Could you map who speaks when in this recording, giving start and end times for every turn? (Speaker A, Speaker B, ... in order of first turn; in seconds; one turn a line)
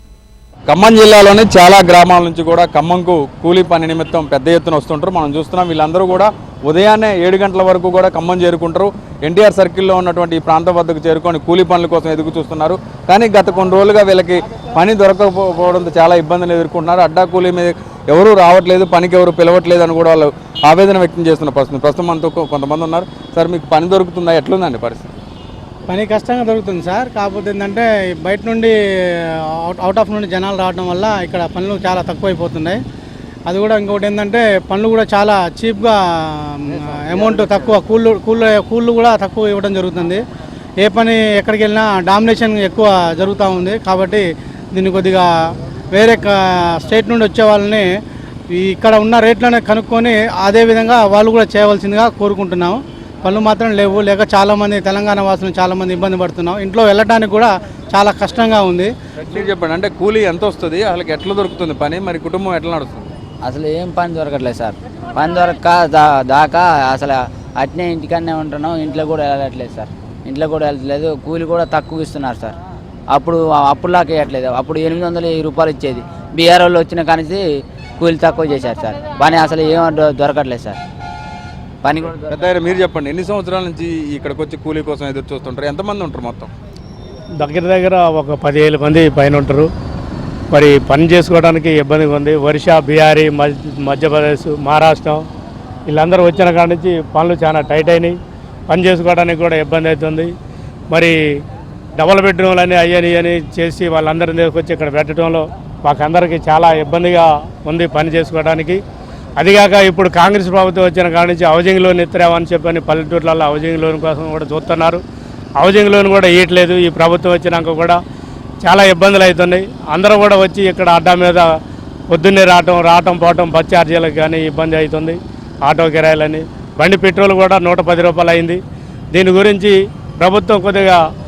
Speaker A: 0.7-25.1
Speaker B: 25.9-28.7
Speaker B: 29.6-32.8
Speaker B: 33.5-40.2
Speaker B: 40.8-45.3
Speaker B: 45.9-47.9
Speaker B: 48.5-58.9
Speaker A: 59.2-63.1
Speaker C: 63.4-72.5
Speaker C: 73.1-77.4
Speaker C: 78.0-80.8
Speaker C: 81.8-82.2
Speaker A: 82.3-86.5
Speaker D: 87.4-89.7
Speaker D: 90.5-95.2
Speaker D: 95.9-98.2
Speaker D: 98.7-100.3
Speaker D: 102.0-108.8
Speaker D: 109.4-115.0
Speaker D: 115.6-118.0
Speaker D: 118.6-121.5
Speaker D: 122.1-128.6
Speaker D: 129.1-131.0